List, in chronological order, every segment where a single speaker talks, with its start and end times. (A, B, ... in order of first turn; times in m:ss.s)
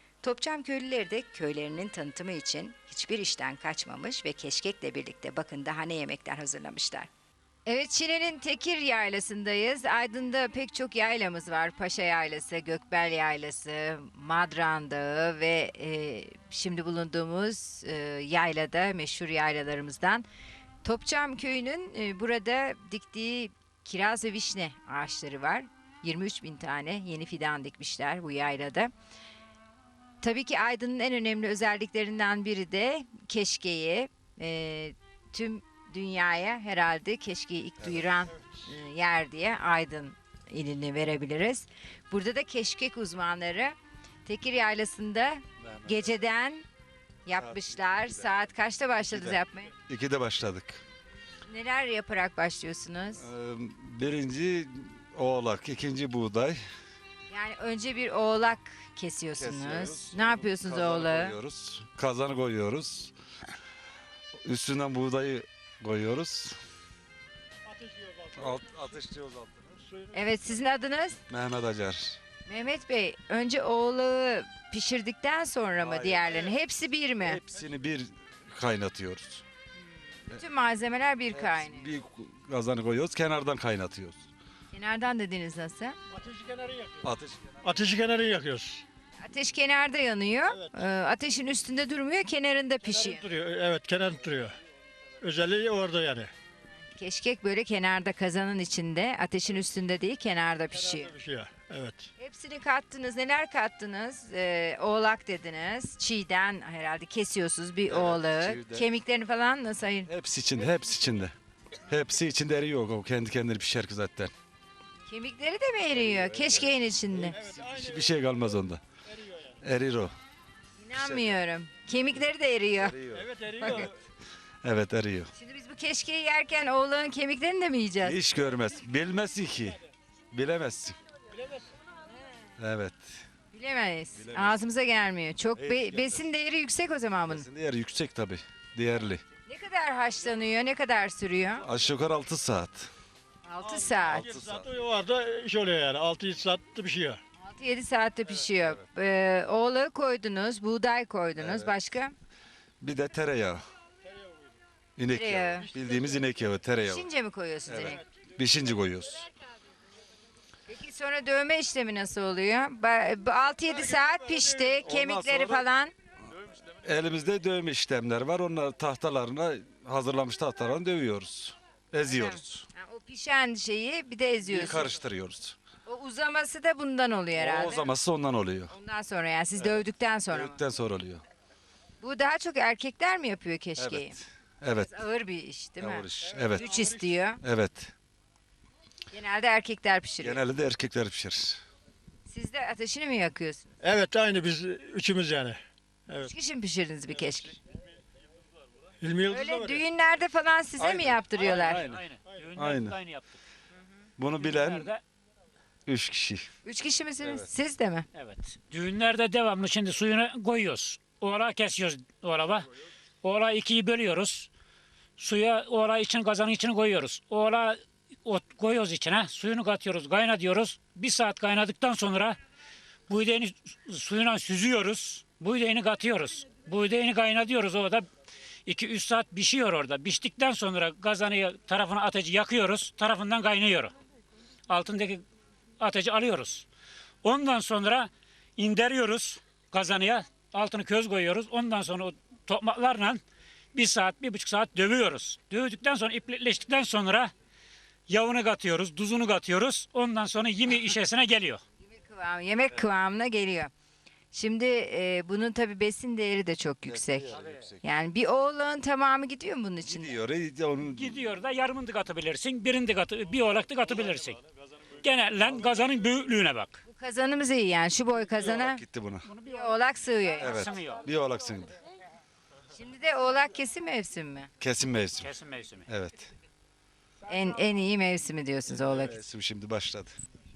0:00.2-0:07.1 A
0:07.7-0:20.3 A
0:20.8-0:28.9 A
0:30.2-0:46.6 A
0:37.8-0:38.1 B
0:45.6-0:46.1 B
0:47.3-0:49.7 A
0:47.4-0:48.3 B
0:49.1-0:50.8 B
0:51.5-0:53.2 A
0:53.2-0:56.6 B
0:57.3-1:01.4 A
0:59.4-1:03.1 B
1:04.4-1:06.6 B
1:07.7-1:08.6 C
1:08.4-1:09.8 B
1:09.9-1:10.2 C
1:10.1-1:11.2 A
1:11.3-1:12.2 B
1:12.5-1:17.4 A
1:15.8-1:16.5 B
1:17.2-1:19.4 B
1:20.4-1:21.9 A
1:21.3-1:24.3 B
1:24.7-1:26.0 A
1:26.1-1:27.0 C
1:27.0-1:27.6 B
1:27.6-1:28.8 C
1:29.2-1:33.2 A
1:30.5-1:30.8 C
1:32.8-1:34.6 C
1:35.2-1:36.3 C
1:37.0-1:41.1 A
1:40.7-1:42.1 C
1:42.2-1:50.1 A
1:47.9-1:48.9 B
1:50.1-1:51.3 B
1:51.9-1:54.3 B
1:55.1-1:57.4 A
1:55.9-1:58.8 B
1:57.4-1:58.0 C
1:59.6-2:00.1 B
2:00.8-2:03.0 A
2:01.0-2:01.4 B
2:02.8-2:03.9 B
2:03.1-2:04.0 C
2:03.6-2:03.9 A
2:04.6-2:05.3 B
2:05.4-2:08.2 A
2:08.0-2:09.8 B
2:10.3-2:11.0 B
2:12.6-2:13.3 B
2:13.5-2:17.5 A
2:14.2-2:14.6 B
2:15.6-2:16.2 B
2:17.3-2:19.2 B
2:19.5-2:21.6 A
2:21.6-2:22.9 B
2:23.5-2:24.3 A
2:23.6-2:27.2 C
2:24.0-2:24.7 B
2:27.4-2:32.1 A
2:31.4-2:31.7 B
2:32.8-2:33.6 B
2:35.0-2:37.1 B
2:35.1-2:35.7 A
2:35.9-2:36.2 C
2:36.9-2:38.0 A
2:37.7-2:39.3 B
2:40.7-2:45.9 A
2:43.7-2:45.0 C
2:45.0-2:45.5 B
2:46.7-2:52.7 B
2:52.1-2:54.9 A
2:54.5-2:55.6 B
2:55.9-2:57.9 A
2:57.4-2:58.7 B
2:58.7-3:00.6 A
2:59.6-3:01.2 B
3:02.0-3:04.2 A
3:03.8-3:05.0 B
3:04.8-3:07.4 A
3:05.8-3:06.8 B
3:06.3-3:06.9 C
3:07.4-3:07.9 B
3:09.1-3:10.4 A
3:10.2-3:11.6 B
3:12.3-3:13.6 A
3:13.8-3:16.3 C
3:16.2-3:17.6 A
3:19.0-3:19.8 C
3:19.3-3:21.9 A
3:20.8-3:23.0 B
3:21.4-3:23.4 D
3:24.2-3:24.9 B
3:24.4-3:25.0 D
3:25.9-3:26.5 B
3:26.6-3:28.1 A
3:28.1-3:32.7 D
3:33.2-3:34.5 D
3:35.2-3:42.4 D
3:43.1-3:48.1 D
3:48.7-3:53.9 D
3:54.7-3:55.2 D
3:55.8-3:56.7 D
3:57.2-4:03.2 D
4:03.7-4:07.3 D
4:08.1-4:11.6 D
4:11.8-4:13.7 A
4:14.3-4:20.1 A
4:16.9-4:17.8 B
4:19.9-4:21.2 B
4:20.8-4:24.4 D
4:25.0-4:26.8 D
4:26.9-4:28.8 A
4:28.4-4:29.3 B
4:29.3-4:29.7 D
4:29.4-4:30.7 A
4:30.4-4:31.8 B
4:30.4-4:31.0 D
4:32.8-4:34.5 A
4:34.6-4:35.3 B
4:35.2-4:35.9 D
4:35.9-4:36.3 B
4:37.3-4:39.2 A
4:38.7-4:40.1 B